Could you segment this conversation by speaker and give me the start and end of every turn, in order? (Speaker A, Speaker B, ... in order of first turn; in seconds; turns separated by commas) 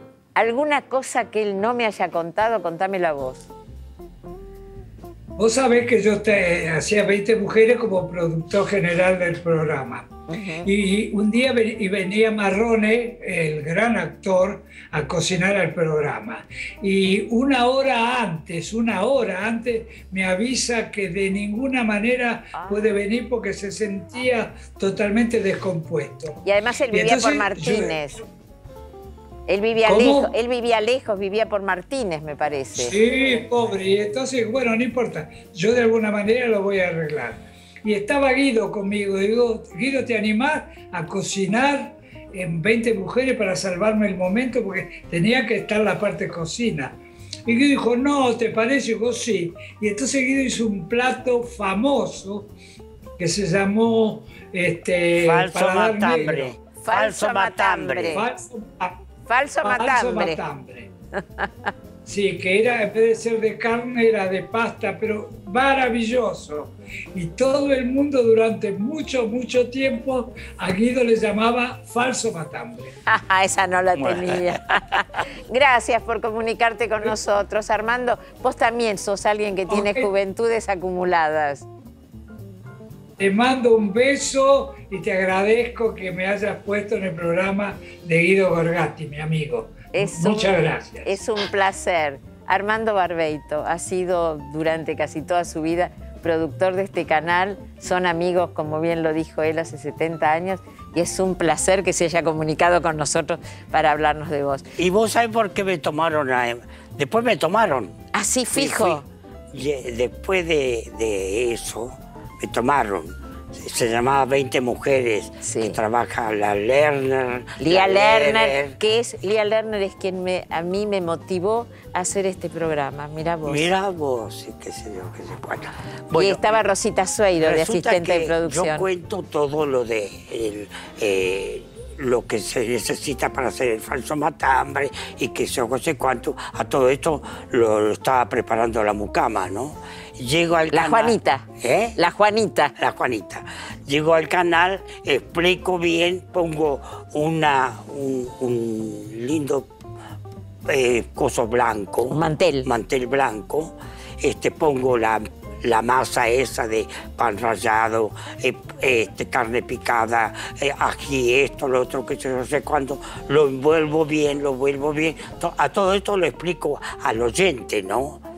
Speaker A: 0.4-3.4, Speaker B: 5.4-10.1, Speaker A: 10.3-10.7, Speaker B: 10.7-28.0, Speaker A: 26.4-28.2, Speaker A: 29.5-33.4, Speaker B: 29.8-30.3, Speaker B: 32.8-52.5, Speaker B: 53.2-56.5, Speaker C: 55.2-58.2, Speaker A: 56.8-58.2, Speaker B: 58.1-59.0, Speaker A: 59.3-60.4, Speaker B: 59.6-60.9, Speaker A: 61.2-61.5, Speaker B: 62.1-72.9, Speaker A: 73.1-81.7, Speaker C: 74.0-75.2, Speaker B: 79.7-80.1, Speaker B: 83.2-91.2, Speaker A: 89.9-104.7, Speaker C: 104.8-108.0, Speaker A: 108.1-109.1, Speaker C: 108.5-118.8, Speaker A: 115.4-115.8, Speaker A: 117.6-123.7, Speaker C: 123.5-126.6, Speaker A: 126.2-128.9, Speaker C: 127.4-142.0, Speaker A: 140.7-142.7, Speaker C: 142.8-149.7, Speaker C: 150.7-168.2, Speaker A: 152.1-152.7